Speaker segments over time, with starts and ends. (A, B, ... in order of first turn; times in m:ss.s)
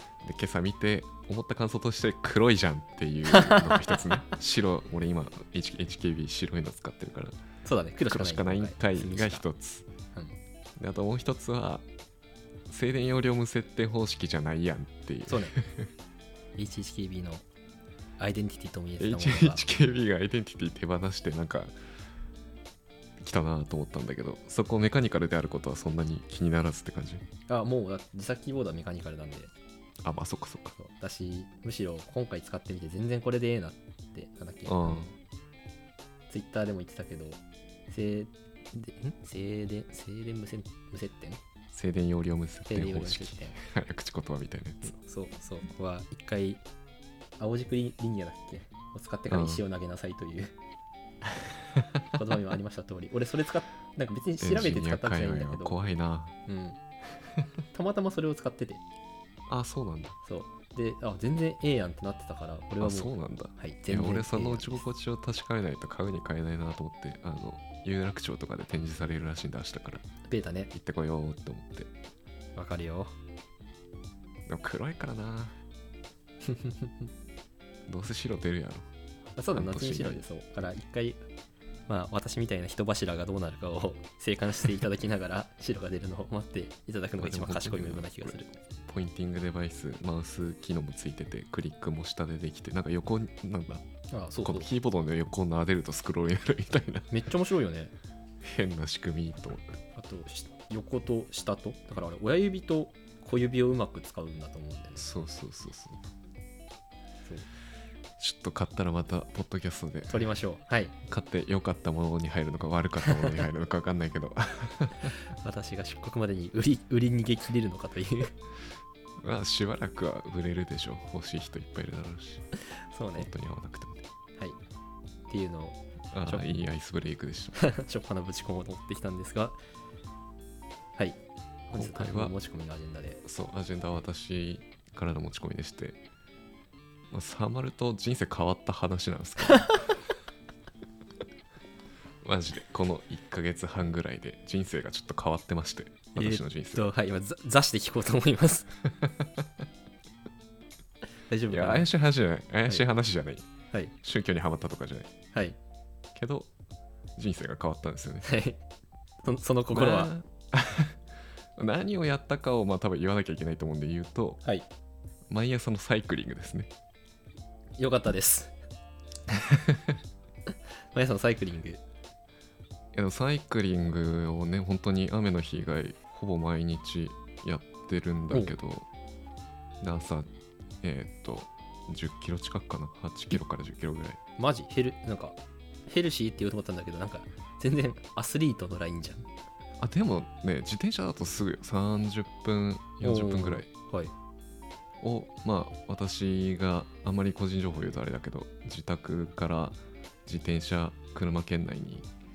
0:00.2-0:07.4 A
0:03.3-0:04.0 B
0:07.6-0:09.4 B
0:08.1-0:09.9 A
0:10.8-0:11.8 A
0:12.7-0:15.9 A
0:15.3-0:15.6 B
0:16.6-0:17.4 B
0:18.2-0:19.6 B
0:19.0-0:21.7 A
0:23.2-0:27.2 A
0:27.5-0:29.5 B
0:30.0-0:30.8 A
0:30.8-0:35.2 B
0:34.7-0:35.1 A
0:36.3-0:41.4 B
0:41.7-0:45.0 A
0:42.7-0:43.6 B
0:44.8-0:46.6 B
0:47.4-0:50.6 B
0:49.3-0:49.6 A
0:52.1-0:55.8 B
0:54.4-0:56.4 A
0:56.5-0:56.8 B
0:57.7-0:58.8 B
0:59.5-1:00.2 A
1:00.2-1:04.9 B
1:02.8-1:10.0 A
1:10.3-1:10.7 B
1:10.7-1:11.9 A
1:12.6-1:13.1 B
1:14.5-1:15.6 A
1:16.5-1:16.9 B
1:17.9-1:18.9 A
1:19.4-1:21.2 B
1:19.5-1:20.2 A
1:21.9-1:28.5 B
1:27.2-1:33.9 A
1:34.1-1:34.7 B
1:34.4-1:37.1 A
1:37.1-1:37.9 B
1:38.4-1:39.8 A
1:40.0-1:45.1 B
1:45.0-1:46.0 A
1:48.2-1:50.3 A
1:50.1-1:50.9 B
1:51.0-1:55.2 A
1:55.3-1:58.4 B
1:59.2-2:02.4 A
2:02.8-2:03.3 B
2:03.2-2:04.0 A
2:05.3-2:06.5 B
2:06.1-2:07.6 A
2:07.6-2:09.6 B
2:11.0-2:13.2 B
2:11.7-2:12.4 A
2:13.2-2:16.0 A
2:17.1-2:20.0 A
2:22.2-2:26.9 A
2:26.2-2:28.7 B
2:29.0-2:29.5 A
2:31.3-2:31.9 B
2:31.5-2:33.5 A
2:34.0-2:35.1 A
2:36.2-2:36.5 A
2:37.2-2:38.3 A
2:38.2-2:38.6 B
2:39.2-2:40.1 B
2:39.7-2:41.0 A
2:41.6-2:44.4 A
2:45.3-2:46.7 A
2:47.8-2:48.5 B
2:49.3-2:50.0 A
2:50.9-2:51.8 B
2:52.9-2:58.9 A
2:59.8-3:00.3 A
3:00.8-3:04.2 A
3:04.4-3:09.3 B
3:09.8-3:13.7 A
3:13.0-3:14.1 B
3:15.0-3:22.1 A